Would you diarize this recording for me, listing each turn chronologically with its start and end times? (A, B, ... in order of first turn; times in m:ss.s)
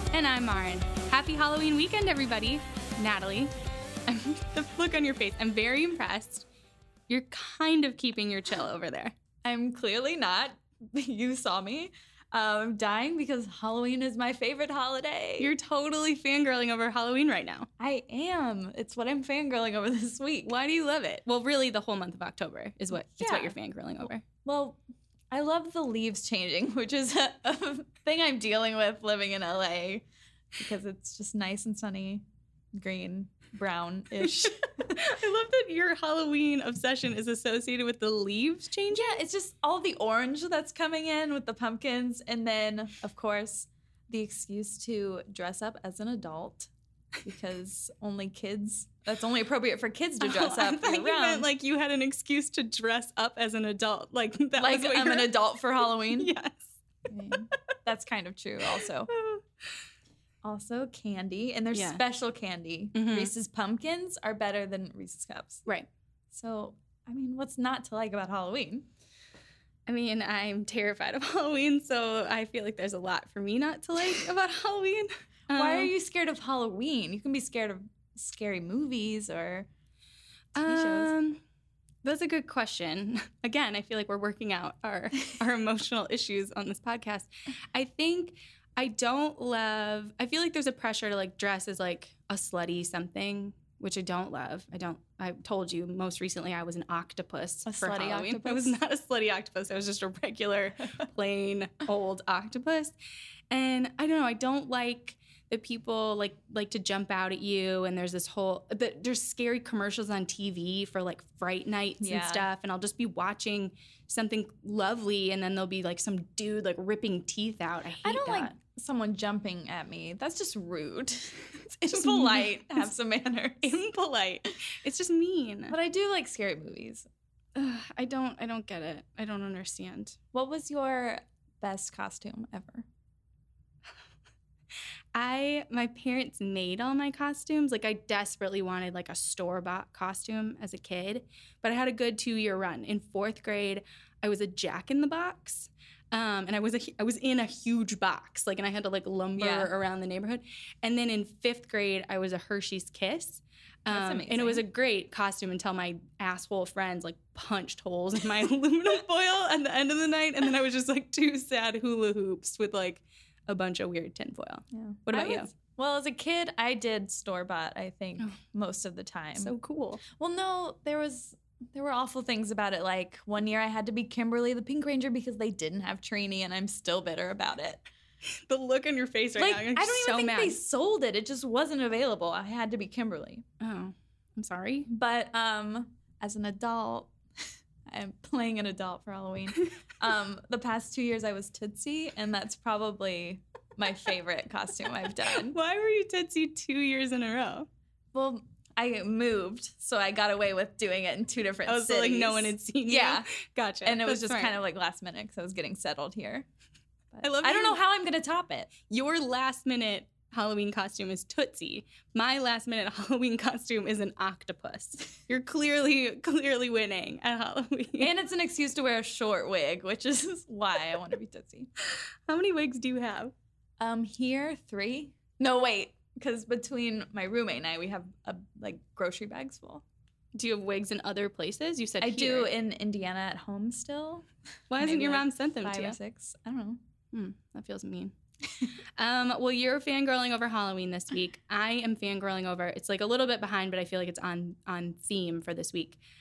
0:00.1-0:03.5 A
0:04.1-0:06.5 A
0:07.1-0:09.2 A
0:09.4-0:15.5 B
0:15.4-0:17.7 A
0:17.8-0:20.5 B
0:20.4-0:24.2 A
0:23.1-0:23.5 B
0:24.4-0:24.8 B
0:25.3-0:30.0 B
0:30.6-0:35.0 B
0:34.2-0:39.1 A
0:38.9-0:46.7 B
0:47.2-0:51.5 B
0:50.2-0:56.7 A
0:54.6-0:56.3 B
0:57.1-0:59.1 B
0:58.8-0:59.4 A
1:00.4-1:05.6 B
1:01.7-1:02.0 A
1:03.0-1:03.3 A
1:06.3-1:08.9 B
1:09.9-1:15.9 A
1:15.5-1:19.7 B
1:20.6-1:21.4 A
1:20.6-1:21.1 B
1:22.0-1:43.0 A
1:37.6-1:38.8 B
1:43.5-1:58.5 A
1:52.0-1:52.5 B
1:58.0-2:03.8 B
2:01.9-2:02.9 A
2:03.6-2:05.8 A
2:05.7-2:07.1 B
2:07.6-2:10.2 A
2:10.3-2:12.9 B
2:15.1-2:45.5 A
2:29.4-2:29.7 B
2:33.9-2:34.6 B
2:44.7-2:57.8 B
2:49.4-2:50.0 A
2:58.5-3:00.6 A
2:59.4-3:03.4 B
3:03.6-3:04.9 A
3:04.9-3:07.1 B
3:07.9-3:15.6 B
3:15.3-3:17.7 A
3:18.1-3:23.3 B
3:21.7-3:24.6 A
3:23.8-3:26.5 B
3:27.2-3:28.7 B
3:27.2-3:27.8 A
3:28.9-3:38.1 A
3:38.0-3:41.7 B
3:41.9-3:43.3 A
3:43.8-3:49.8 B
3:50.3-3:52.5 A
3:52.0-3:54.3 B
3:54.7-3:56.0 A
3:54.8-3:56.8 B
3:57.1-3:58.1 A
3:59.0-4:06.0 A